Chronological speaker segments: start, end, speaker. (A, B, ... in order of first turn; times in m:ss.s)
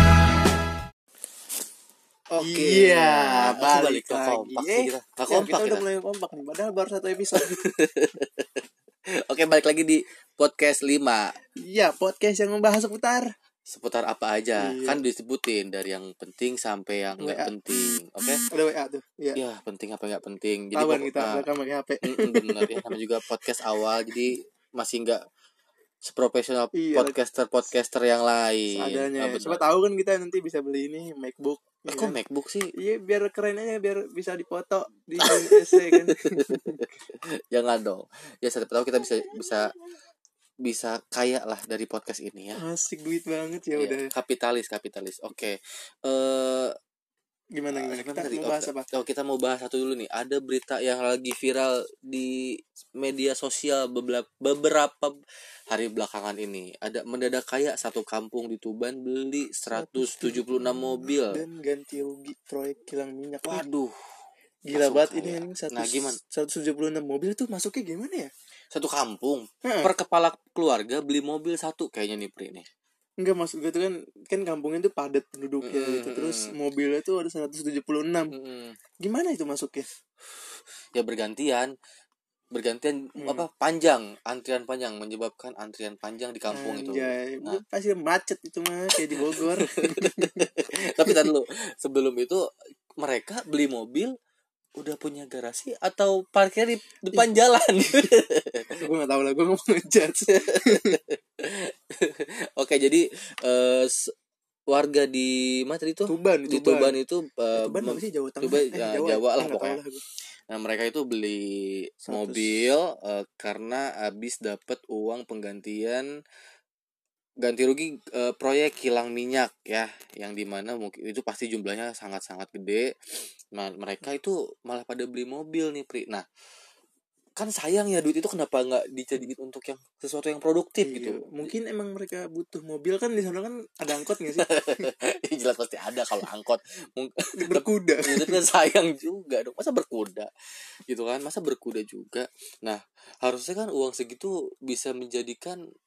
0:02.3-0:05.8 A
0:02.4-0:07.6 B
0:07.3-0:08.6 A
0:09.2-0:11.4 A
0:11.6-0:13.3 B
0:13.7-0:18.4 A
0:14.6-0:15.0 B
0:17.2-0:17.5 B
0:18.5-0:19.4 B
0:19.4-0:21.5 A
0:20.7-0:22.9 B
0:22.0-0:25.2 A
0:26.0-0:29.6 A
0:26.7-0:27.1 B
0:28.7-0:32.1 B
0:31.9-0:32.7 A
0:32.8-0:36.8 B
0:35.2-0:39.7 A
0:40.6-0:42.6 A
0:42.6-0:44.1 B
0:43.7-0:46.7 A
0:47.5-0:48.9 B
0:47.7-0:55.2 A
0:55.7-1:01.4 A
0:59.7-1:03.7 B
1:03.4-1:03.9 A
1:04.6-1:08.3 B
1:04.7-1:06.2 A
1:08.7-1:12.6 A
1:09.6-1:09.9 B
1:13.2-1:18.3 B
1:15.6-1:16.5 A
1:18.3-1:18.8 A
1:19.0-1:19.9 B
1:20.9-1:21.7 A
1:22.5-1:27.6 A
1:23.2-1:23.5 B
1:26.5-1:30.5 B
1:29.1-1:32.4 A
1:31.0-1:31.3 B
1:33.0-1:34.1 A
1:34.8-1:38.8 A
1:38.8-1:41.0 B
1:40.3-1:44.1 A
1:44.7-1:49.8 A
1:46.0-1:47.0 B
1:47.6-1:50.0 B
1:50.5-1:56.0 A
1:52.1-1:52.5 B
1:57.4-2:06.2 A
2:07.4-2:11.5 A
2:10.8-2:14.9 B
2:14.1-2:20.3 A
2:17.4-2:18.4 B
2:20.9-2:25.6 A